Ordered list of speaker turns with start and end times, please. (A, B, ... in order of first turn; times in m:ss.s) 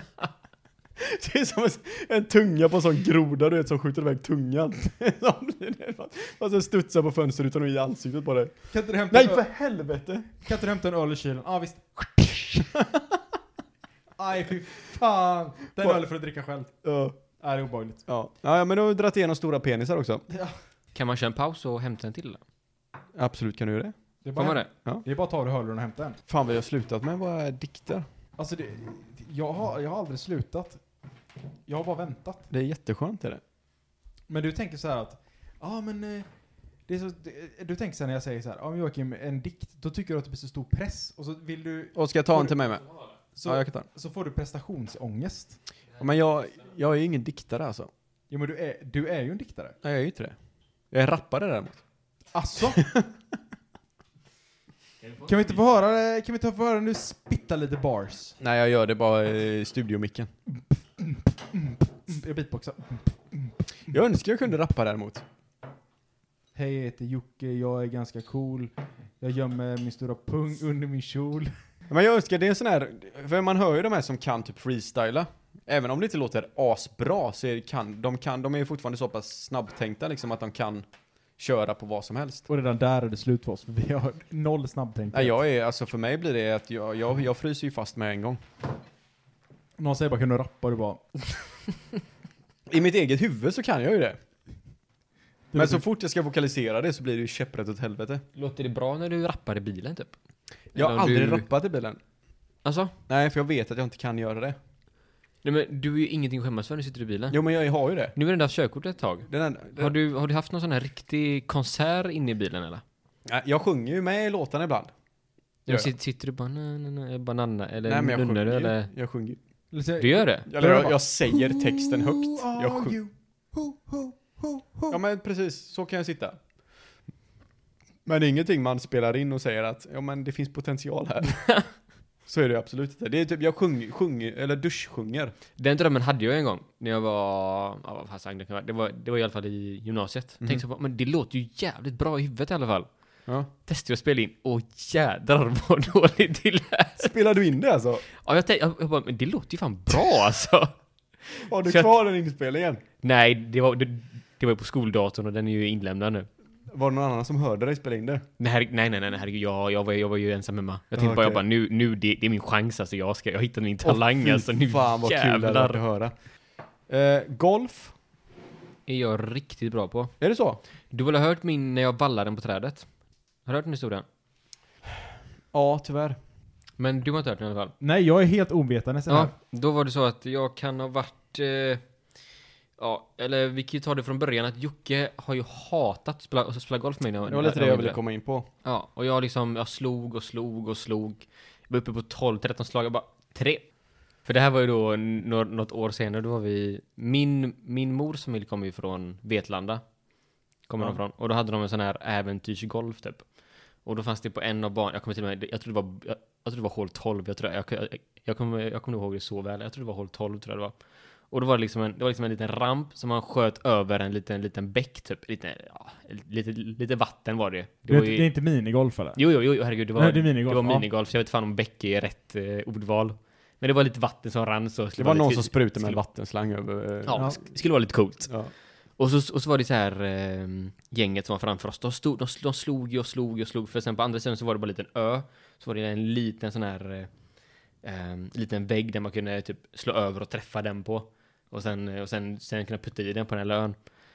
0:01.0-0:10.3 A
0:08.7-0:09.5 B
0:10.4-0:13.0 B
0:14.2-0:16.7 B
0:16.8-0:17.2 A
0:17.4-0:18.0 B
0:18.0-0:20.2 A
0:20.3-0:20.6 B
0:20.9-0:22.4 C
0:23.1-0:23.9 A
0:24.2-0:26.2 B
0:24.4-0:24.7 C
0:26.3-0:28.0 A
0:28.4-0:30.8 B
0:31.7-0:32.4 B
0:32.5-0:33.4 A
0:34.3-0:36.2 B
0:36.9-0:42.6 B
0:41.9-0:42.8 A
0:43.3-0:45.6 B
0:43.4-0:43.9 A
0:46.0-0:47.9 A
0:48.3-0:49.8 B
0:49.8-0:50.4 A
0:50.9-0:51.8 A
0:52.3-0:52.8 B
0:52.8-0:53.1 A
0:55.2-0:58.4 B
0:58.4-1:00.3 A
1:01.0-1:03.6 B
1:03.9-1:05.2 A
1:06.5-1:11.5 B
1:11.9-1:20.8 A
1:21.4-1:22.4 A
1:22.5-1:25.4 B
1:25.1-1:28.4 A
1:29.8-1:31.0 B
1:32.7-1:34.2 A
1:35.5-1:35.8 B
1:35.5-1:38.2 A
1:38.4-1:40.1 C
1:40.7-1:41.4 C
1:40.7-1:42.0 A
1:42.6-1:42.9 C
1:43.1-1:44.6 A
1:45.4-1:47.4 C
1:47.3-1:48.1 A
1:48.1-1:52.8 C
1:49.3-1:49.9 A
1:53.2-1:54.9 A
1:55.6-1:58.9 C
1:57.8-1:59.4 A
1:59.7-2:05.0 B
2:00.0-2:00.5 C
2:00.4-2:03.0 A
2:04.9-2:06.4 A
2:08.0-2:11.4 A
2:12.2-2:15.3 A
2:15.6-2:22.9 C
2:23.6-2:27.1 C
2:27.0-2:28.0 A
2:28.2-2:31.9 C
2:31.5-2:32.8 A
2:33.0-2:36.3 C
2:36.7-2:38.2 A
2:38.4-2:45.8 C
2:41.0-2:41.4 A
2:43.8-2:46.1 A
2:46.9-2:47.9 A
2:48.9-2:50.1 C
2:50.2-2:50.6 A
2:50.9-2:52.9 C
2:53.4-2:54.0 C
2:55.5-2:56.2 A
2:56.8-2:57.7 C
2:57.8-2:59.3 B
2:59.1-3:01.8 C
3:02.8-3:08.0 C
3:07.2-3:08.5 A
3:08.6-3:13.7 C
3:14.2-3:19.8 C
3:20.7-3:23.2 C
3:23.8-3:30.7 C
3:31.3-3:38.3 C
3:37.9-3:39.2 B
3:39.2-3:46.0 C
3:39.9-3:40.8 B
3:45.0-3:47.4 A
3:47.0-3:48.4 C
3:47.1-3:47.4 B
3:49.0-3:57.1 C
3:57.8-4:03.8 C